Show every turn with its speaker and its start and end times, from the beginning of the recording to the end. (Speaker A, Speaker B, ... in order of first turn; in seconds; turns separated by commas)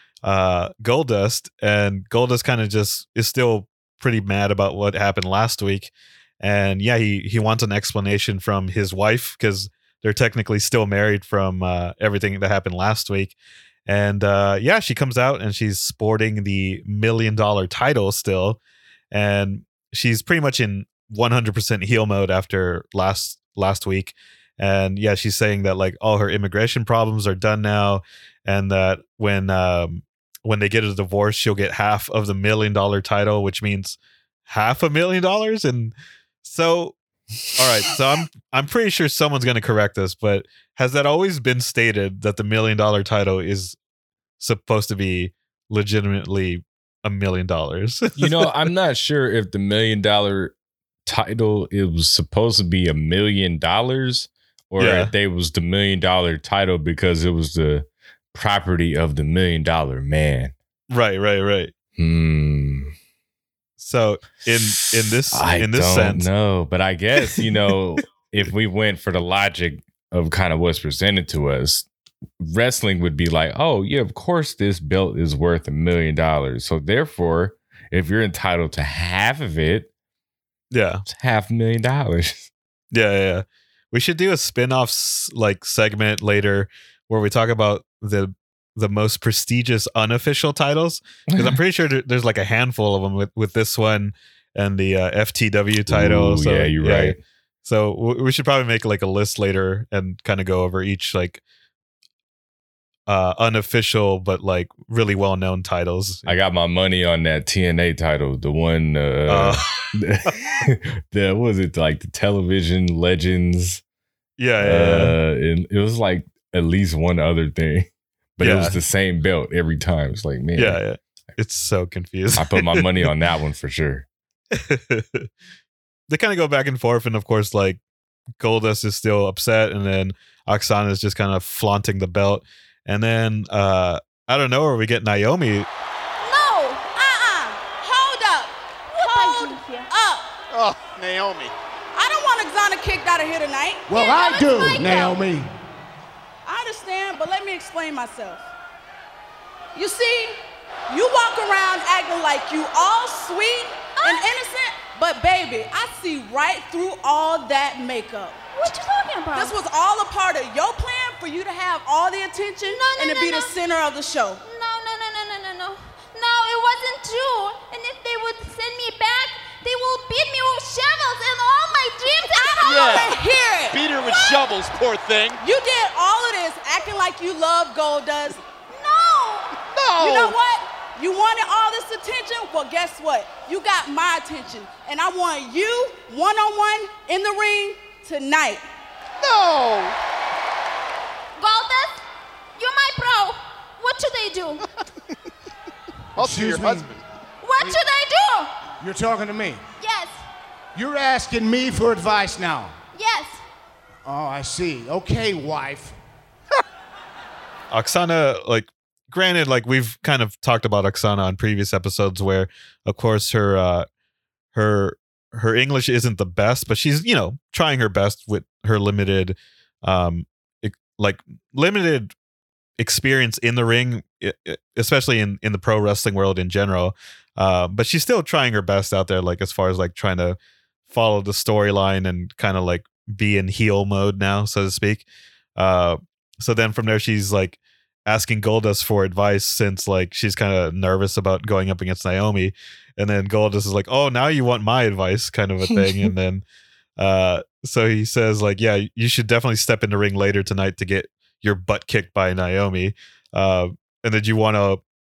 Speaker A: 0.2-13.4, Speaker A: 13.9-18.6, Speaker A: 19.1-37.0, Speaker A: 37.5-43.8, Speaker A: 44.4-48.5, Speaker B: 48.2-50.5, Speaker B: 51.1-60.5, Speaker A: 54.8-55.1, Speaker A: 60.9-61.7, Speaker B: 62.0-62.9, Speaker A: 63.8-66.3, Speaker B: 64.5-71.9, Speaker B: 72.4-79.9, Speaker A: 80.7-81.0, Speaker B: 81.1-82.5, Speaker A: 82.9-101.4, Speaker B: 91.3-91.6, Speaker B: 95.9-97.2, Speaker A: 103.1-106.3, Speaker B: 106.2-113.8, Speaker A: 109.3-109.8, Speaker A: 114.4-115.1, Speaker B: 114.6-120.8, Speaker A: 118.4-118.8, Speaker A: 120.5-123.1, Speaker B: 122.4-124.1, Speaker A: 124.5-125.3, Speaker A: 126.1-127.8, Speaker A: 128.4-135.7, Speaker C: 136.2-136.8, Speaker D: 136.8-140.3, Speaker C: 138.9-139.9, Speaker E: 140.5-141.5, Speaker D: 141.9-143.8, Speaker F: 143.9-145.5, Speaker C: 143.9-145.2, Speaker D: 146.5-148.5, Speaker D: 149.8-158.4, Speaker C: 154.0-154.3, Speaker C: 158.5-159.5, Speaker D: 159.3-164.4, Speaker C: 162.7-163.5, Speaker C: 164.4-173.2, Speaker D: 172.4-173.8, Speaker E: 172.6-173.2, Speaker E: 173.7-175.4, Speaker C: 174.1-174.4, Speaker D: 175.4-178.4, Speaker C: 178.7-179.5, Speaker E: 179.7-180.4, Speaker D: 180.0-188.6, Speaker E: 189.2-190.0, Speaker C: 191.4-192.0, Speaker C: 192.6-194.6, Speaker E: 196.2-197.0, Speaker F: 196.2-196.9, Speaker C: 197.4-198.5, Speaker F: 198.8-199.6, Speaker C: 199.8-200.2, Speaker F: 200.8-202.7, Speaker C: 202.9-203.4, Speaker F: 204.0-206.0, Speaker A: 207.7-213.9, Speaker A: 214.5-222.1, Speaker A: 222.8-230.4, Speaker A: 230.9-235.0, Speaker A: 235.6-246.4, Speaker A: 247.0-254.8